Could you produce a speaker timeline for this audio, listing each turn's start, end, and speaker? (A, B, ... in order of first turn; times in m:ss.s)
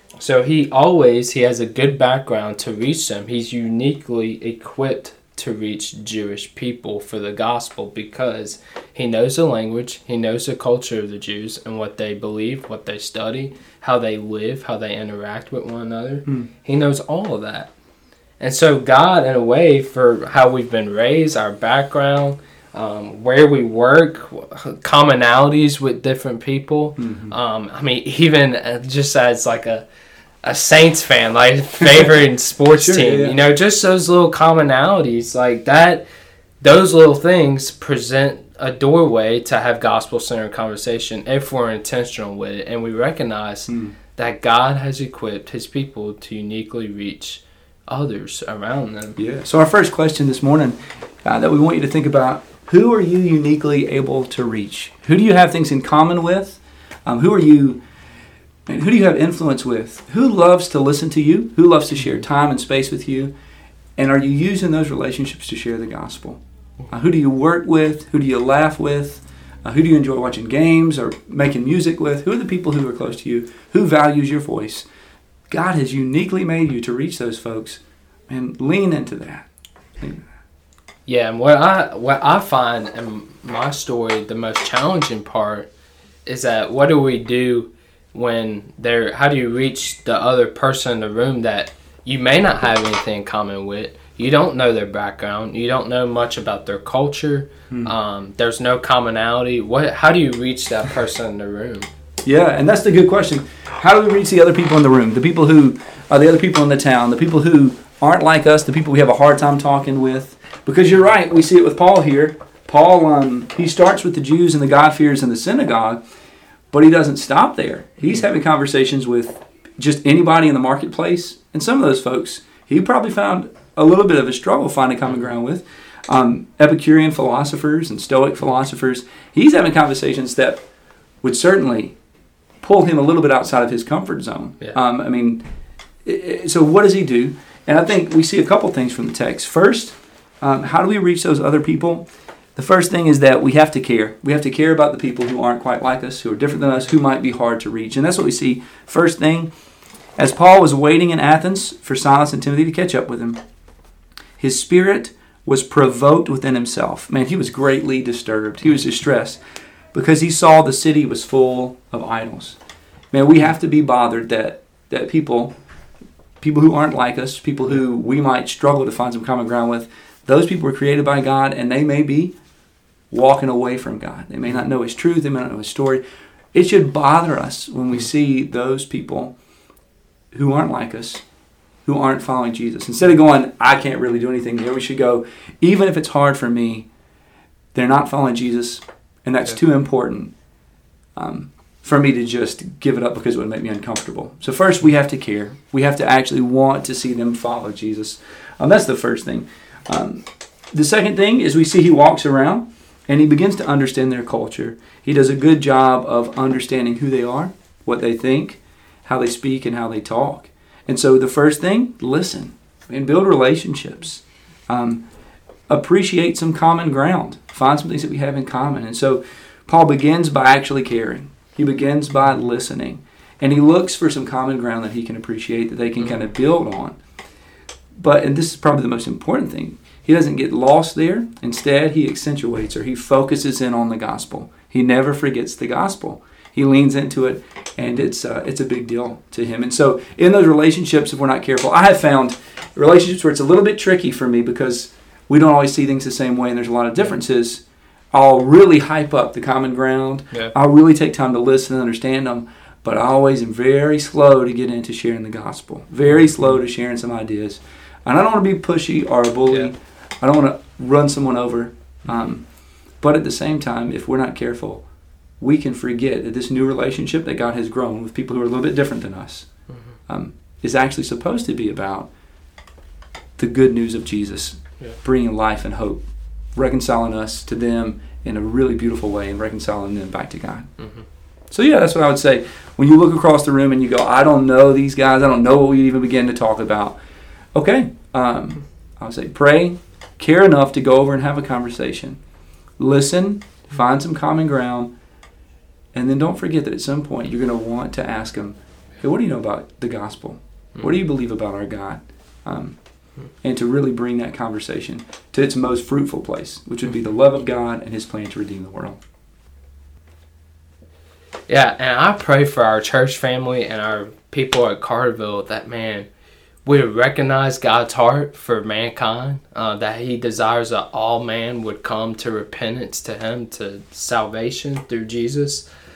0:00.2-0:17.7 A
0:18.4-0:29.9 A
0:27.0-0:27.4 B
0:30.4-0:36.1 A
0:31.8-0:32.1 B
0:32.8-0:33.4 B
0:36.6-0:49.2 A
0:43.7-0:43.9 B
0:49.2-0:57.8 B
0:58.7-1:03.3 B
1:04.0-1:14.9 B
1:15.5-1:19.5 B
1:20.0-1:20.2 B
1:21.0-1:25.7 A
1:26.2-1:41.9 A
1:37.7-1:37.9 B
1:42.2-1:56.0 B
1:56.7-2:10.6 B
2:11.2-2:12.0 B
2:12.6-2:15.4 B
2:16.0-2:29.5 B
2:30.2-2:33.4 B
2:34.4-2:39.4 B
2:39.9-2:42.6 B
2:43.1-2:45.5 B
2:46.4-2:52.3 B
2:53.1-2:56.0 B
2:56.5-2:59.4 B
3:00.3-3:01.2 B
3:01.8-3:06.9 B
3:07.7-3:10.3 B
3:11.2-3:35.0 B
3:35.7-3:47.0 B
3:46.0-3:46.3 A
3:48.0-4:22.4 B
4:23.0-4:24.8 B
4:25.4-4:29.5 B
4:29.7-4:30.0 A
4:30.1-4:32.1 B
4:33.4-4:40.7 B
4:40.8-4:41.0 A
4:41.5-4:47.0 B
4:47.5-4:52.2 B
4:52.8-4:54.9 B
4:55.9-5:02.8 B
5:03.4-5:09.0 B
5:11.5-5:16.1 A
5:16.6-5:25.6 A